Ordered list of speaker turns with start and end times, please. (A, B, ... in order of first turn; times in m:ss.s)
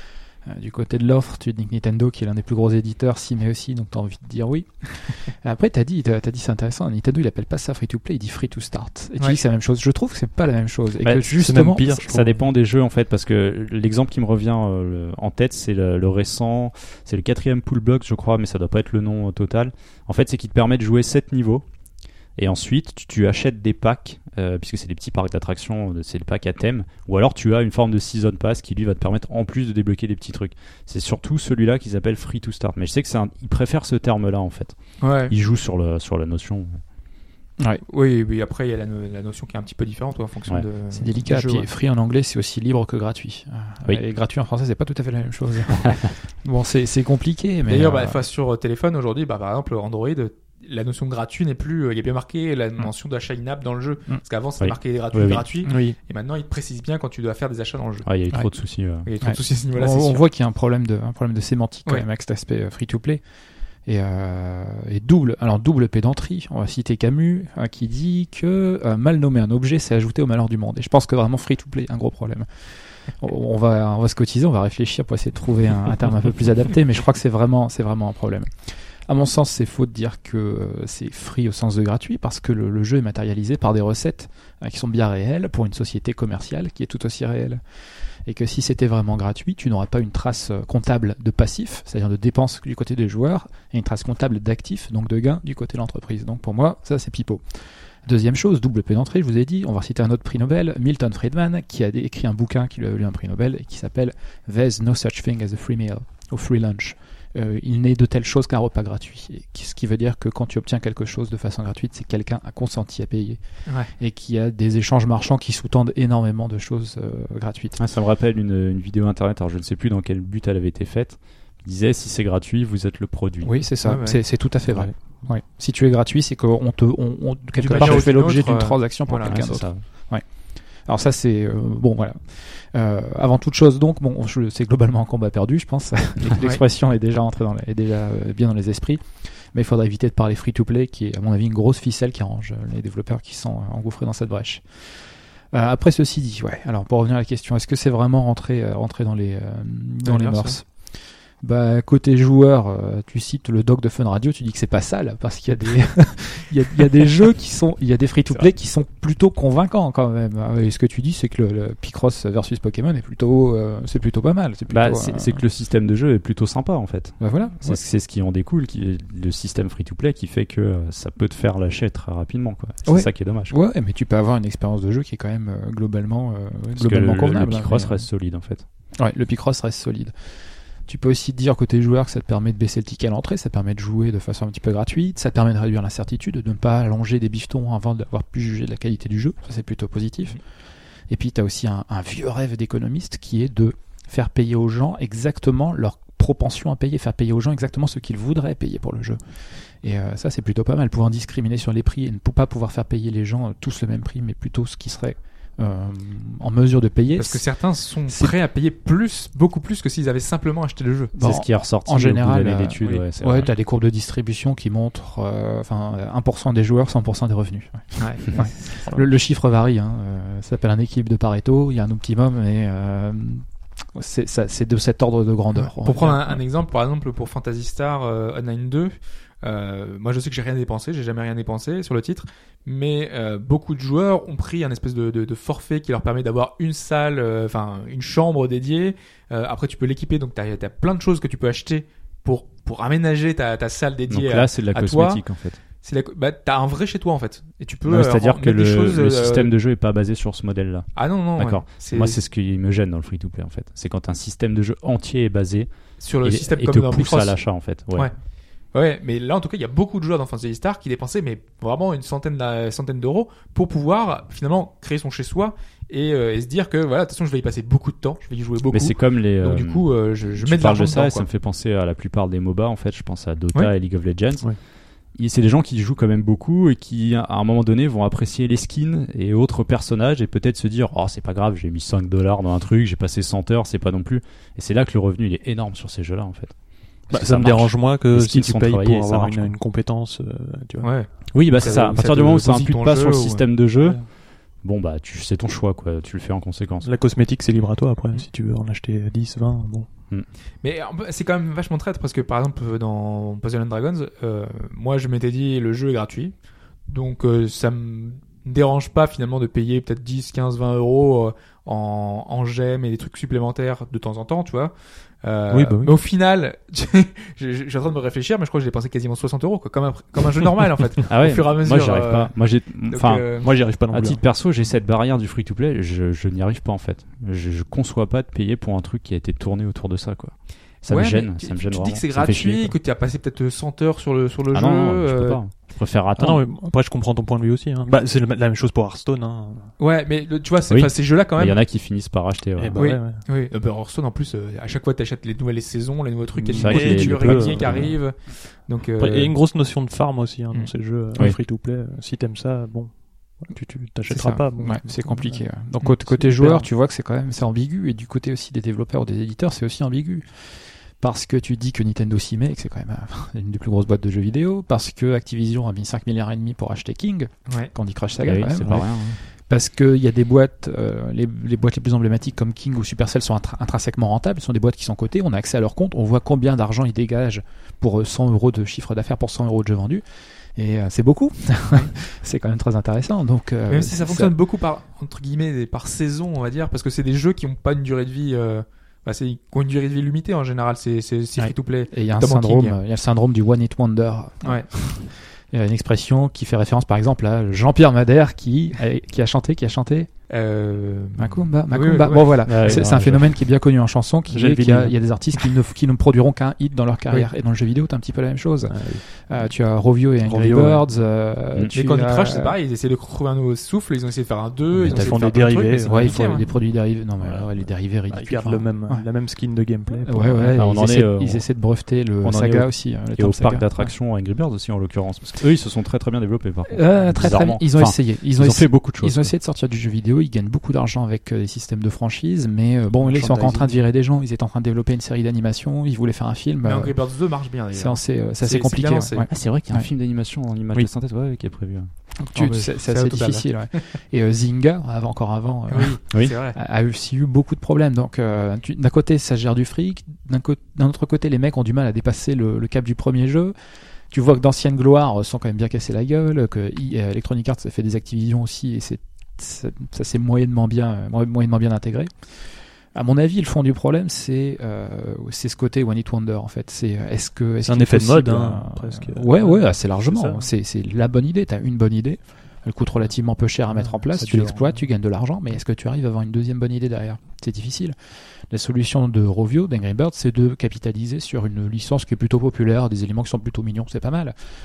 0:00.4-0:12.0 A
0:11.0-0:21.6 B
0:11.4-0:12.4 C
0:22.4-0:34.8 B
0:35.0-0:35.3 D
0:35.3-0:36.8 B
0:37.8-0:41.7 D
0:40.9-0:48.2 A
0:45.8-0:46.1 B
0:47.7-0:58.1 D
0:54.6-0:55.5 B
0:55.7-0:56.0 C
0:58.1-0:59.1 B
0:59.0-1:00.2 D
0:59.2-1:03.2 A
1:03.9-1:12.5 A
1:13.2-1:27.6 A
1:28.3-1:37.4 A
1:38.1-1:53.4 A
1:54.0-1:57.8 A
1:57.8-2:03.6 B
2:03.4-2:10.2 A
2:03.8-2:04.2 D
2:07.6-2:09.4 D
2:09.2-2:09.8 B
2:10.9-2:24.6 A
2:25.5-2:30.7 A
2:30.0-2:30.6 D
2:31.4-2:45.4 A
2:44.7-2:53.6 B
2:47.2-2:47.8 A
2:52.9-2:58.0 A
2:56.8-2:58.6 B
2:59.0-3:00.1 A
3:00.9-3:10.4 A
3:11.1-3:19.2 A
3:19.8-3:27.4 A
3:27.2-3:31.2 D
3:28.1-3:28.3 A
3:31.2-3:46.4 A
3:31.2-3:33.5 B
3:38.0-3:38.8 D
3:45.6-4:05.2 D
4:04.1-4:05.6 B
4:05.8-4:09.5 D
4:07.9-4:15.7 B
4:11.0-4:12.2 D
4:16.0-4:17.4 D
4:16.2-4:18.1 B
4:18.7-4:31.3 D
4:28.7-4:34.5 B
4:35.2-4:46.5 B
4:47.1-4:49.5 B
4:47.1-4:50.9 C
4:50.8-4:53.4 D
4:51.3-4:54.0 B
4:54.6-4:56.9 B
4:56.8-4:59.9 C
5:00.6-5:06.3 D
5:06.9-5:22.3 D
5:15.5-5:16.0 C
5:21.1-5:23.3 B
5:22.9-5:23.5 D
5:23.4-5:24.2 C
5:23.9-5:32.8 B
5:30.9-5:35.4 D
5:34.5-5:36.4 B
5:36.2-5:39.7 C
5:39.8-5:41.6 D
5:40.7-5:42.8 B
5:42.6-5:43.2 C
5:42.8-5:49.4 D
5:46.4-5:47.9 C
5:46.6-5:48.0 B
5:49.0-5:55.4 C
5:54.1-6:00.3 A
5:56.1-5:56.7 C
6:01.0-6:20.0 A
6:08.2-6:09.2 B
6:20.6-6:24.4 A
6:23.7-6:32.8 D
6:31.4-6:40.1 A
6:34.4-6:34.7 D
6:40.3-6:42.8 D
6:41.2-6:52.6 A
6:42.4-6:43.4 B
6:44.3-6:45.0 C
6:48.7-6:49.0 C
6:50.2-6:50.8 C
6:51.7-6:56.4 D
6:54.8-6:56.4 C
6:54.9-6:55.1 B
6:55.8-6:59.1 A
6:57.2-6:57.5 C
6:58.1-7:00.6 C
7:00.0-7:03.9 A
7:00.5-7:01.4 B
7:02.2-7:09.3 B
7:06.7-7:17.0 A
7:13.0-7:13.8 C
7:16.6-7:19.3 D
7:17.7-7:19.9 A
7:19.3-7:21.9 B
7:22.2-7:33.5 A
7:22.4-7:23.8 D
7:25.7-7:26.6 D
7:34.1-7:42.1 A
7:42.9-7:58.0 A
7:47.7-7:50.5 C
7:53.7-7:54.8 C
7:58.5-8:04.3 A